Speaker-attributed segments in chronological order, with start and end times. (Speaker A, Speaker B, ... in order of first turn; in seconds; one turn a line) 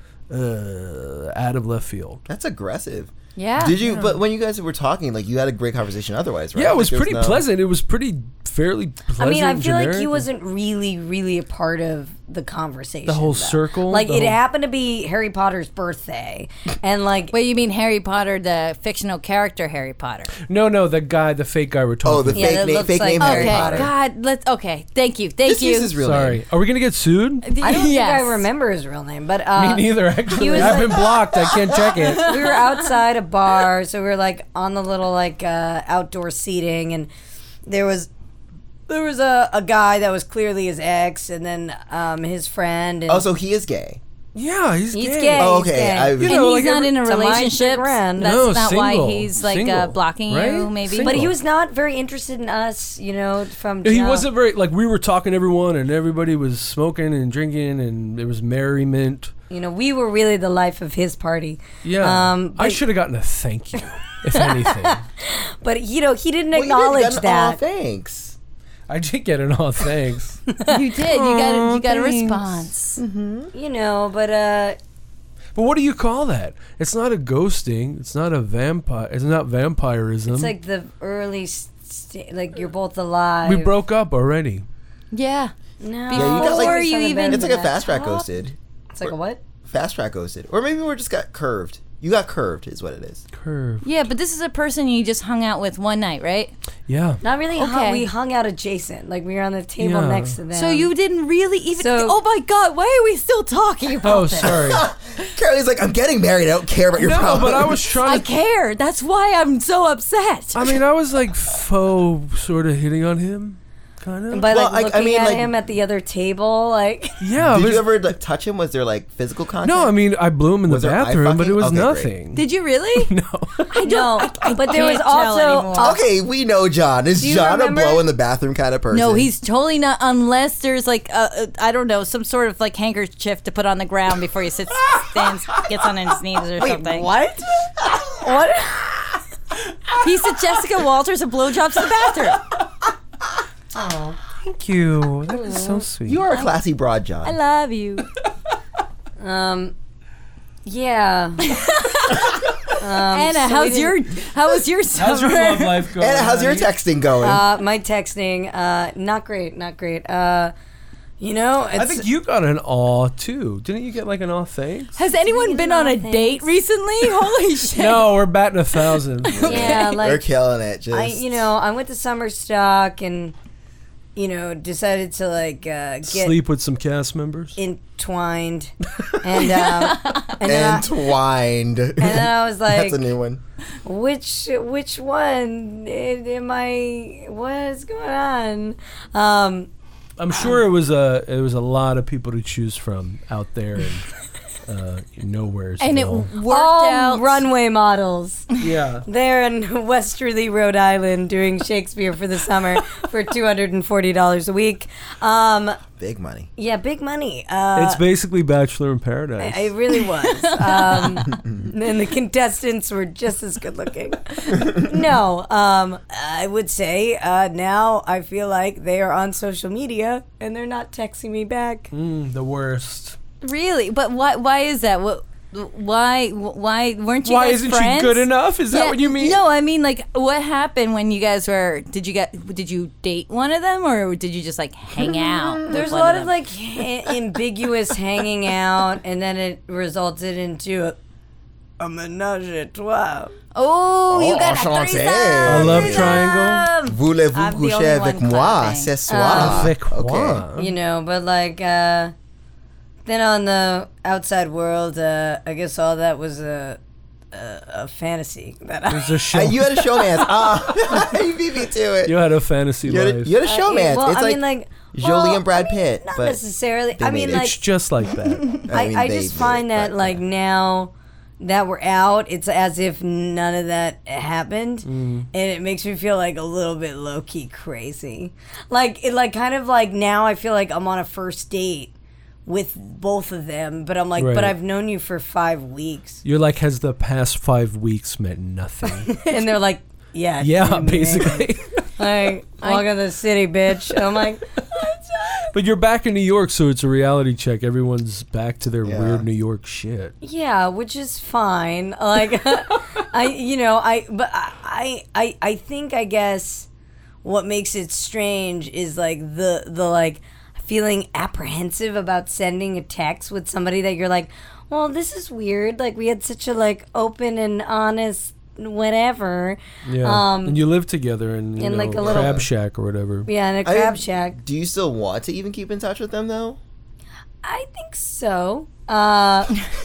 Speaker A: 0.3-2.2
Speaker B: 2.3-7.4
Speaker C: 3.4-3.8
Speaker A: 3.8-4.2
Speaker A: 6.5-10.2
Speaker D: 9.2-17.3
Speaker A: 13.1-14.4
Speaker C: 17.3-20.3
Speaker A: 20.5-22.7
Speaker B: 22.0-23.9
Speaker D: 22.3-23.9
Speaker C: 23.2-25.9
Speaker B: 25.4-26.4
Speaker A: 26.0-27.5
Speaker C: 27.4-28.4
Speaker D: 27.6-37.1
Speaker A: 29.5-32.5
Speaker C: 32.1-32.6
Speaker D: 37.6-38.1
Speaker D: 38.9-43.2
Speaker B: 43.1-44.0
Speaker A: 44.3-45.6
Speaker D: 44.9-48.4
Speaker B: 45.3-46.4
Speaker A: 46.1-46.9
Speaker C: 46.2-51.3
Speaker A: 48.2-51.3
Speaker D: 51.0-54.2
Speaker A: 53.8-59.3
Speaker D: 59.5-62.8
Speaker A: 61.8-65.0
Speaker D: 64.3-67.6
Speaker B: 66.5-68.3
Speaker A: 68.9-72.7
Speaker C: 70.7-73.0
Speaker B: 73.0-73.5
Speaker D: 73.5-74.8
Speaker A: 75.5-80.5
Speaker D: 80.3-83.7
Speaker A: 83.4-84.7
Speaker C: 85.1-85.5
Speaker D: 85.8-87.7
Speaker C: 86.1-88.2
Speaker B: 86.1-89.1
Speaker D: 88.9-89.4
Speaker B: 89.7-93.2
Speaker A: 93.3-93.8
Speaker C: 93.8-96.5
Speaker A: 96.9-97.2
Speaker D: 97.2-100.9
Speaker C: 97.5-98.1
Speaker A: 99.8-100.3
Speaker C: 100.5-104.6
Speaker D: 101.8-102.2
Speaker A: 104.0-104.8
Speaker B: 104.4-107.8
Speaker A: 107.0-108.3
Speaker C: 108.0-110.6
Speaker A: 110.5-114.5
Speaker D: 114.3-117.2
Speaker B: 114.5-115.5
Speaker A: 117.2-118.0
Speaker B: 117.4-120.0
Speaker A: 119.6-122.5
Speaker B: 120.6-122.1
Speaker C: 122.3-123.1
Speaker A: 123.0-124.3
Speaker C: 123.7-126.0
Speaker D: 123.7-126.0
Speaker B: 125.7-129.3
Speaker D: 127.2-128.1
Speaker C: 128.9-137.1
Speaker D: 136.6-139.2
Speaker C: 140.0-142.4
Speaker D: 143.8-144.1
Speaker A: 144.2-146.2
Speaker D: 145.4-145.8
Speaker B: 146.0-147.3
Speaker C: 147.2-148.1
Speaker D: 149.2-149.7
Speaker D: 150.6-151.4
Speaker C: 151.4-152.4
Speaker D: 152.8-153.9
Speaker C: 153.0-155.9
Speaker A: 154.9-156.7
Speaker B: 156.0-157.4
Speaker D: 157.2-160.5
Speaker D: 161.2-162.1
Speaker A: 161.7-164.9
Speaker C: 164.9-168.1
Speaker D: 165.2-166.5
Speaker A: 167.7-169.7
Speaker C: 169.3-170.0
Speaker B: 169.3-171.4
Speaker D: 169.4-170.2
Speaker D: 170.9-173.3
Speaker D: 174.2-176.3
Speaker A: 176.0-177.6
Speaker D: 177.6-180.9
Speaker C: 179.9-180.3
Speaker B: 180.4-183.4
Speaker D: 182.0-183.0
Speaker D: 183.8-189.7
Speaker A: 190.2-194.1
Speaker A: 194.7-196.3
Speaker C: 195.8-197.4
Speaker D: 196.4-205.8
Speaker A: 198.6-199.0
Speaker B: 205.9-206.5
Speaker D: 206.6-208.0
Speaker A: 207.7-209.7
Speaker D: 209.4-221.9
Speaker C: 210.1-211.3
Speaker A: 221.9-223.2
Speaker C: 223.4-236.3
Speaker A: 227.2-229.4
Speaker B: 235.0-235.9
Speaker D: 235.7-241.0
Speaker D: 241.8-243.3
Speaker C: 243.5-248.9
Speaker B: 244.1-246.3
Speaker A: 245.4-246.7
Speaker D: 245.9-246.7
Speaker B: 246.8-250.4
Speaker D: 249.1-249.7
Speaker A: 249.2-250.7
Speaker D: 250.6-252.1
Speaker D: 253.0-256.8
Speaker D: 257.3-259.5
Speaker A: 258.9-260.0
Speaker B: 259.3-262.1
Speaker A: 262.0-263.3
Speaker B: 262.8-266.4
Speaker D: 263.4-267.6
Speaker B: 267.0-267.5
Speaker A: 267.3-268.6
Speaker D: 268.5-281.9
Speaker B: 268.7-270.2
Speaker A: 274.8-275.3
Speaker D: 282.4-286.2
Speaker A: 284.2-284.5
Speaker A: 286.2-289.2
Speaker D: 289.0-295.5
Speaker A: 290.4-291.8
Speaker A: 295.5-300.1
Speaker B: 298.8-299.2
Speaker D: 300.2-306.7
Speaker D: 307.2-320.6
Speaker A: 319.8-323.3
Speaker D: 321.6-322.4
Speaker B: 322.0-322.5
Speaker D: 323.2-324.4
Speaker B: 323.6-326.6
Speaker D: 327.4-329.6